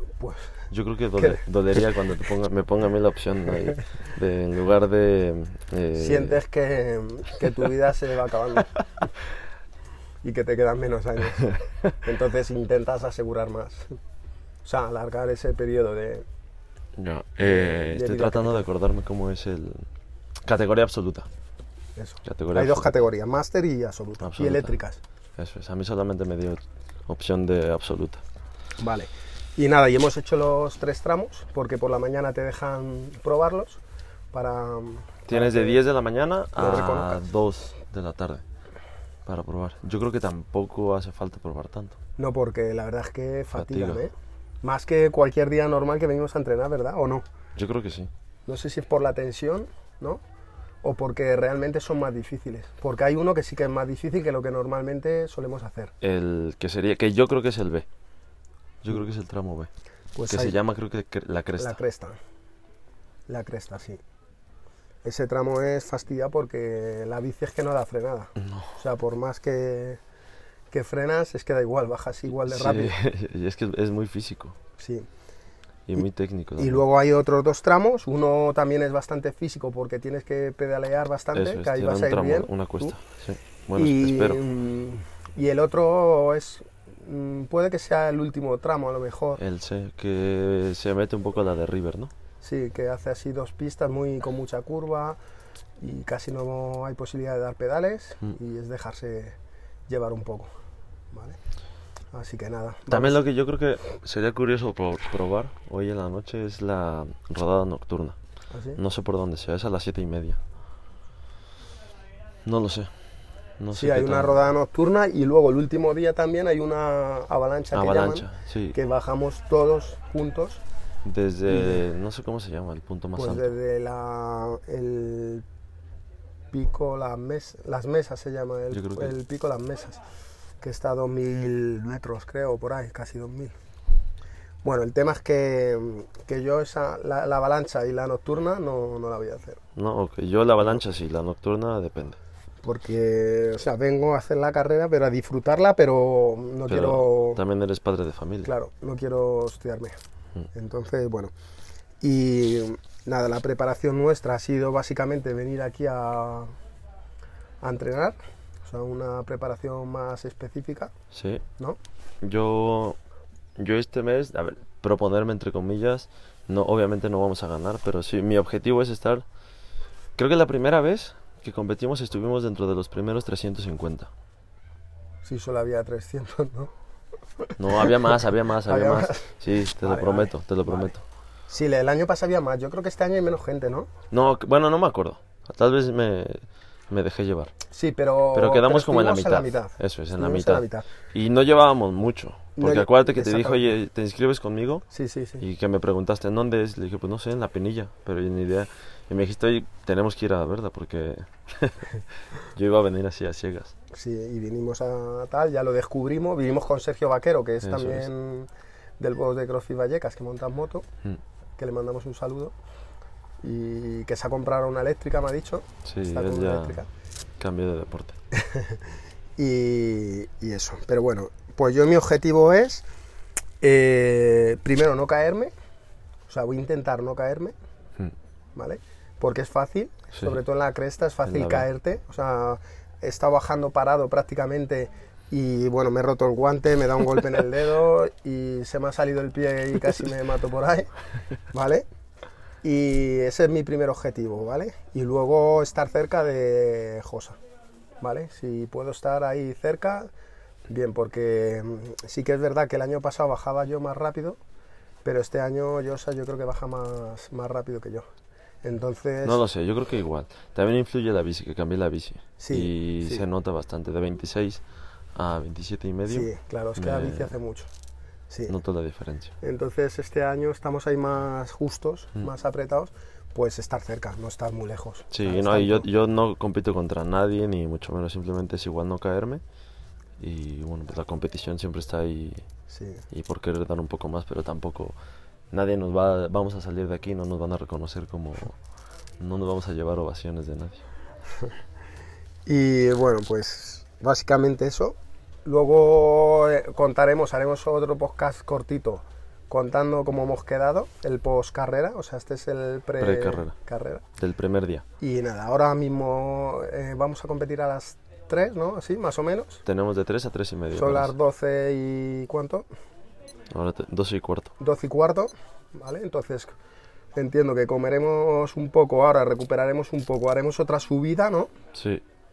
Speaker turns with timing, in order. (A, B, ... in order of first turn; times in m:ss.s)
0:00.2-0:00.6 A
0:00.7-0:06.4 B
0:01.2-0:01.4 A
0:06.0-0:08.7 A
0:10.2-0:13.9 A
0:14.6-0:16.3 A
0:17.0-0:19.9 B
0:17.6-0:18.7 A
0:20.4-0:21.3 B
0:22.0-0:25.0 A
0:22.3-0:22.9 B
0:24.2-0:24.8 B
0:25.4-0:28.2 B
0:28.8-0:33.8 A
0:34.3-0:35.8 A
0:35.3-0:38.4 B
0:36.6-0:37.3 A
0:39.3-0:42.0 B
0:42.2-0:47.2 A
0:43.5-0:44.0 B
0:47.6-0:48.1 B
0:48.5-0:50.2 A
0:50.8-0:55.9 A
0:56.0-0:57.9 B
0:58.8-0:59.7 B
1:00.2-1:00.6 A
1:00.3-1:01.8 B
1:01.6-1:02.2 A
1:03.3-1:04.0 A
1:05.0-1:10.0 A
1:08.4-1:08.7 B
1:10.7-1:12.9 A
1:12.4-1:14.6 B
1:14.8-1:15.1 A
1:15.9-1:16.8 B
1:16.6-1:23.0 A
1:21.3-1:24.4 B
1:23.8-1:29.4 A
1:29.4-1:32.1 B
1:32.4-1:35.2 A
1:35.8-1:39.4 A
1:39.9-1:40.5 A
1:41.1-1:41.4 A
1:42.1-1:43.2 A
1:42.9-1:48.2 B
1:48.5-1:48.8 A
1:48.8-1:50.4 B
1:52.4-1:52.9 B
1:53.6-1:54.5 B
1:53.7-2:00.6 A
1:57.7-1:58.8 B
2:01.0-2:03.5 B
2:01.5-2:01.8 A
2:03.2-2:05.4 A
2:06.5-2:10.0 A
2:08.7-2:09.2 B
2:10.6-2:13.5 A
2:14.6-2:19.6 A
2:19.8-2:22.2 B
2:22.6-2:27.4 A
2:26.7-2:28.5 B
2:28.4-2:30.0 A
2:30.5-2:31.3 A
2:32.0-2:36.5 A
2:37.6-2:40.9 A
2:41.1-2:41.4 B
2:42.2-2:43.0 B
2:43.6-2:49.2 B
2:50.2-2:54.1 B
2:55.2-2:56.7 A
2:57.4-3:00.9 A
2:57.6-3:01.0 B
3:01.5-3:03.9 A
3:04.1-3:07.5 B
3:07.7-3:10.9 A
3:08.3-3:14.9 B
3:12.6-3:13.7 A
3:14.9-3:15.4 A
3:15.4-3:23.7 B
3:23.9-3:30.8 A
3:27.6-3:28.1 B
3:31.6-3:32.5 A
3:33.4-3:36.9 A
3:35.8-3:36.8 B
3:37.4-3:38.2 B
3:38.3-3:38.8 A
3:39.4-3:42.8 A
3:43.6-3:45.5 A
3:46.3-3:47.5 A
3:48.6-4:00.9 A
3:51.3-3:51.7 B
4:01.5-4:01.8 A
4:02.6-4:07.4 A
4:08.0-4:10.1 A
4:10.7-4:14.4 A
4:15.0-4:18.1 A
4:18.6-4:19.4 A
4:19.2-4:24.6 B
4:22.4-4:23.2 A
4:25.2-4:27.4 B
4:26.1-4:27.7 A
4:28.5-4:29.4 B
4:29.4-4:35.9 A
4:35.1-4:39.4 B
4:40.2-4:42.4 B
4:42.7-4:43.0 A
4:43.1-4:45.0 B
4:45.5-4:48.6 B
4:49.2-4:50.8 B
4:52.5-5:04.0 A
5:03.0-5:03.5 B
5:04.2-5:04.8 B
5:05.0-5:09.6 A
5:09.7-5:11.1 B
5:10.8-5:12.6 A
5:13.5-5:14.5 B
5:14.6-5:16.5 A
5:17.2-5:21.5 A
5:21.7-5:22.0 B